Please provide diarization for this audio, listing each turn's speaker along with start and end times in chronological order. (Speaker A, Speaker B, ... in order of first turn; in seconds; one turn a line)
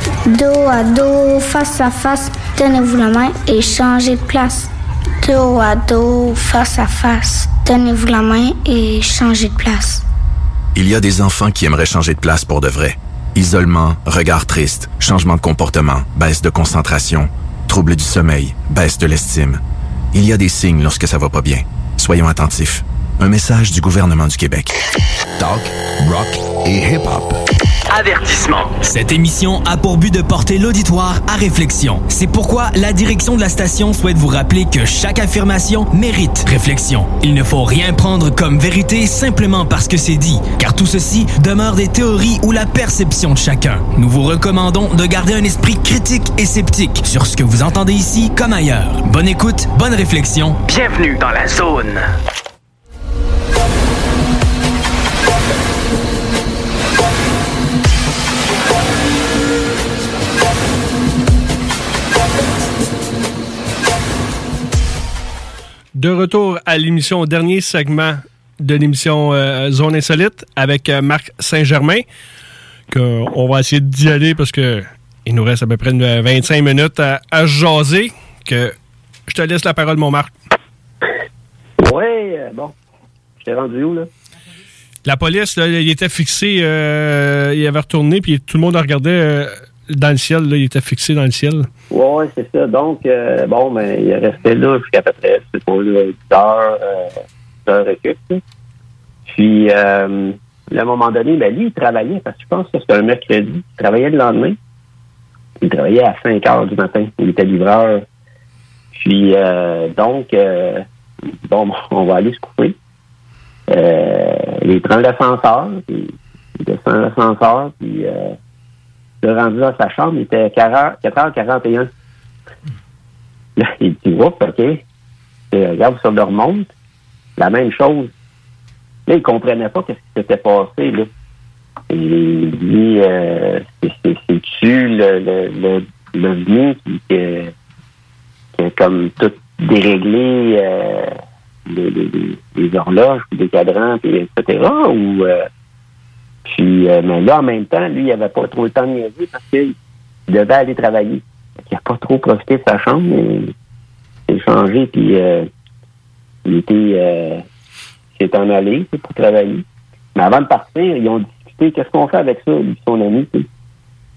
Speaker A: 0.3-4.7
Speaker A: 5.2-10.0
Speaker B: 10.7-19.6
Speaker B: 20.1-24.7
Speaker B: 25.4-27.4
Speaker C: 27.9-28.7
Speaker D: 28.8-50.6
Speaker C: 50.7-52.0
Speaker E: 65.9-72.0
Speaker E: 72.9-78.7
Speaker E: 79.3-80.3
Speaker F: 81.8-82.7
Speaker F: 83.4-84.1
Speaker E: 85.0-91.7
Speaker F: 91.9-98.4
Speaker F: 99.3-104.6
Speaker F: 105.6-108.0
Speaker F: 108.9-110.8
Speaker F: 111.4-112.8
Speaker F: 113.7-118.3
Speaker F: 119.2-121.9
Speaker F: 123.6-124.8
Speaker F: 125.5-126.7
Speaker F: 127.4-128.1
Speaker F: 129.1-131.1
Speaker F: 131.9-137.5
Speaker F: 138.5-141.1
Speaker F: 141.7-145.4
Speaker F: 146.4-149.7
Speaker F: 150.3-153.5
Speaker F: 154.3-155.5
Speaker F: 156.4-157.4
Speaker F: 158.2-159.6
Speaker F: 160.1-163.5